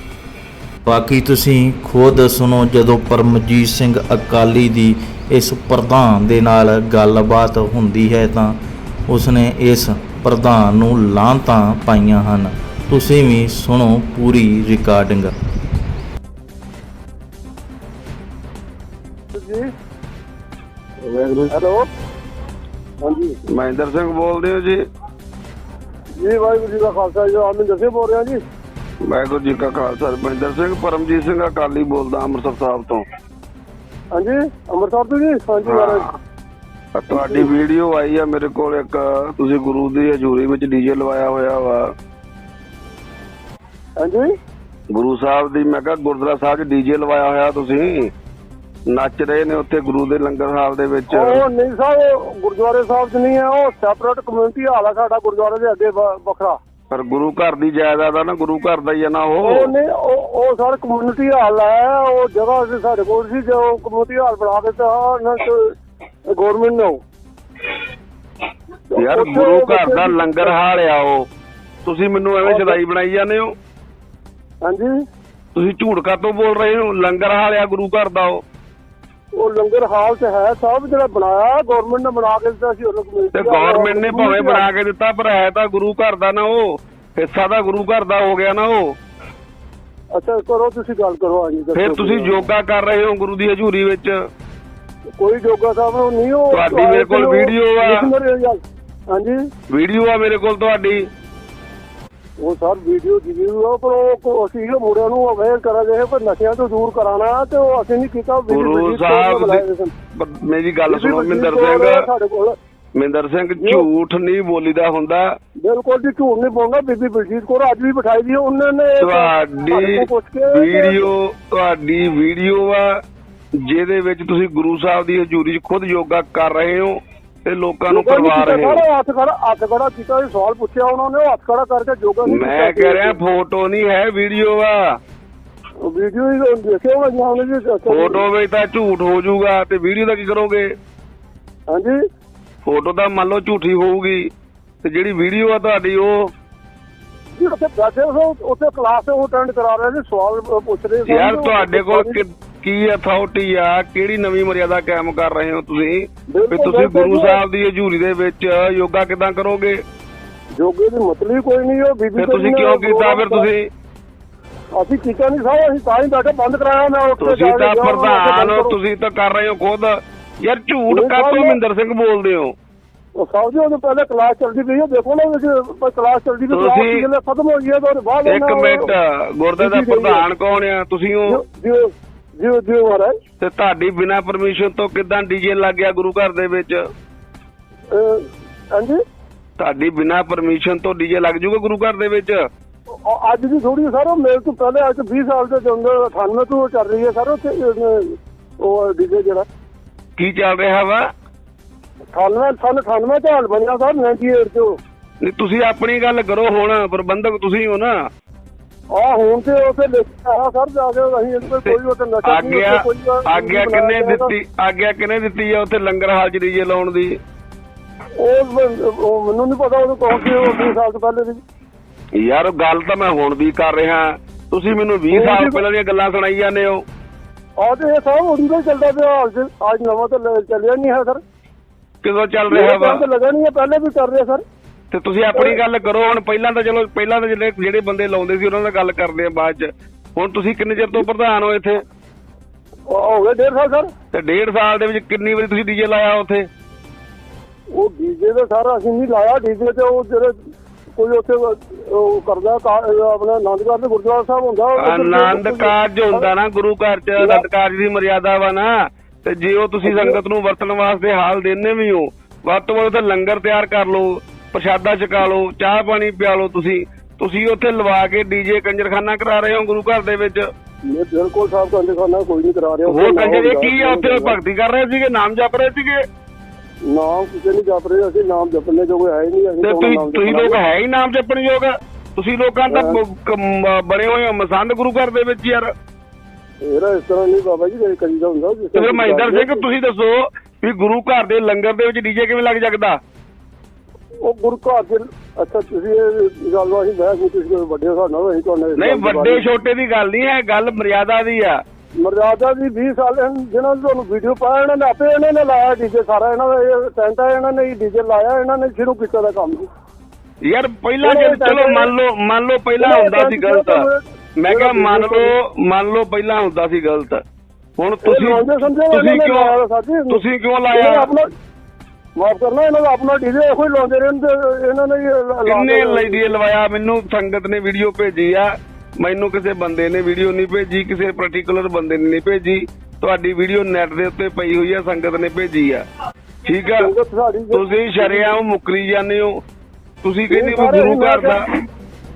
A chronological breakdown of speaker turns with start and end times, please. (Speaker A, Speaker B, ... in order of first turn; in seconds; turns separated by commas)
Speaker A: 0.8-15.3, Speaker B: 19.3-19.7, Speaker C: 21.1-21.5, Speaker B: 21.5-21.9, Speaker B: 23.0-23.4, Speaker C: 23.5-24.8, Speaker B: 26.2-28.4, Speaker C: 29.0-33.0, Speaker B: 34.1-36.1, Speaker C: 35.6-36.1, Speaker C: 36.9-41.9, Speaker B: 37.1-37.5, Speaker B: 44.0-44.3, Speaker C: 44.9-48.1, Speaker C: 48.9-51.4, Speaker B: 51.1-56.6, Speaker C: 56.9-59.7, Speaker B: 59.4-65.7, Speaker B: 66.3-67.0, Speaker B: 68.9-70.5, Speaker C: 69.0-71.2, Speaker C: 71.8-73.5, Speaker B: 72.4-72.8, Speaker B: 74.6-74.9, Speaker C: 75.5-78.4, Speaker B: 79.3-84.7, Speaker C: 83.3-89.0, Speaker B: 90.1-92.5, Speaker C: 91.7-94.2, Speaker B: 95.2-99.4, Speaker C: 96.5-98.1, Speaker C: 99.7-101.1, Speaker B: 102.4-109.9, Speaker C: 108.5-109.6, Speaker C: 110.1-112.0, Speaker B: 110.9-112.6, Speaker C: 112.9-115.3, Speaker B: 113.6-113.9, Speaker B: 115.6-121.1, Speaker C: 119.0-123.0, Speaker C: 123.6-128.8, Speaker B: 127.9-133.2, Speaker C: 132.2-135.0, Speaker B: 135.8-138.2, Speaker C: 137.9-140.7, Speaker B: 141.7-142.0, Speaker C: 142.6-144.3, Speaker C: 144.8-146.3, Speaker B: 147.4-152.2, Speaker C: 151.1-159.8, Speaker B: 156.3-157.4, Speaker B: 160.5-163.5, Speaker C: 162.2-163.7, Speaker B: 164.7-168.8, Speaker C: 167.2-172.5, Speaker B: 170.9-171.6, Speaker B: 173.2-178.9, Speaker C: 176.5-177.0, Speaker C: 178.2-181.4, Speaker B: 179.6-180.2, Speaker B: 181.2-183.2, Speaker C: 183.4-186.8, Speaker B: 187.9-189.0, Speaker C: 189.6-192.4, Speaker B: 192.9-199.5, Speaker C: 200.2-201.0, Speaker B: 202.1-204.8, Speaker C: 205.2-207.9, Speaker B: 208.9-214.3, Speaker C: 211.6-217.2, Speaker B: 218.2-221.4, Speaker C: 222.2-226.8, Speaker B: 225.1-225.6, Speaker B: 227.6-231.2, Speaker C: 232.0-233.0, Speaker B: 232.5-234.4, Speaker C: 234.9-241.8, Speaker B: 235.3-235.6, Speaker B: 242.9-243.9, Speaker C: 244.1-246.5, Speaker B: 247.7-250.4, Speaker B: 250.9-256.3, Speaker C: 254.8-270.5, Speaker B: 257.2-257.4, Speaker B: 259.8-260.2, Speaker B: 270.9-274.4, Speaker C: 272.9-276.0, Speaker B: 276.8-280.6, Speaker C: 279.6-285.7, Speaker B: 282.7-283.0, Speaker B: 286.6-289.6, Speaker C: 288.7-293.0, Speaker B: 294.2-299.5, Speaker C: 298.8-301.6, Speaker B: 302.0-309.7, Speaker C: 310.4-313.8, Speaker B: 311.0-311.9, Speaker B: 312.8-315.3, Speaker C: 314.4-317.2, Speaker C: 317.8-319.5, Speaker B: 318.0-321.3, Speaker C: 320.1-321.1, Speaker B: 322.2-326.3, Speaker C: 325.4-335.8, Speaker C: 336.4-336.9, Speaker B: 336.8-338.3, Speaker C: 337.5-339.4, Speaker C: 340.0-341.4, Speaker B: 340.3-341.4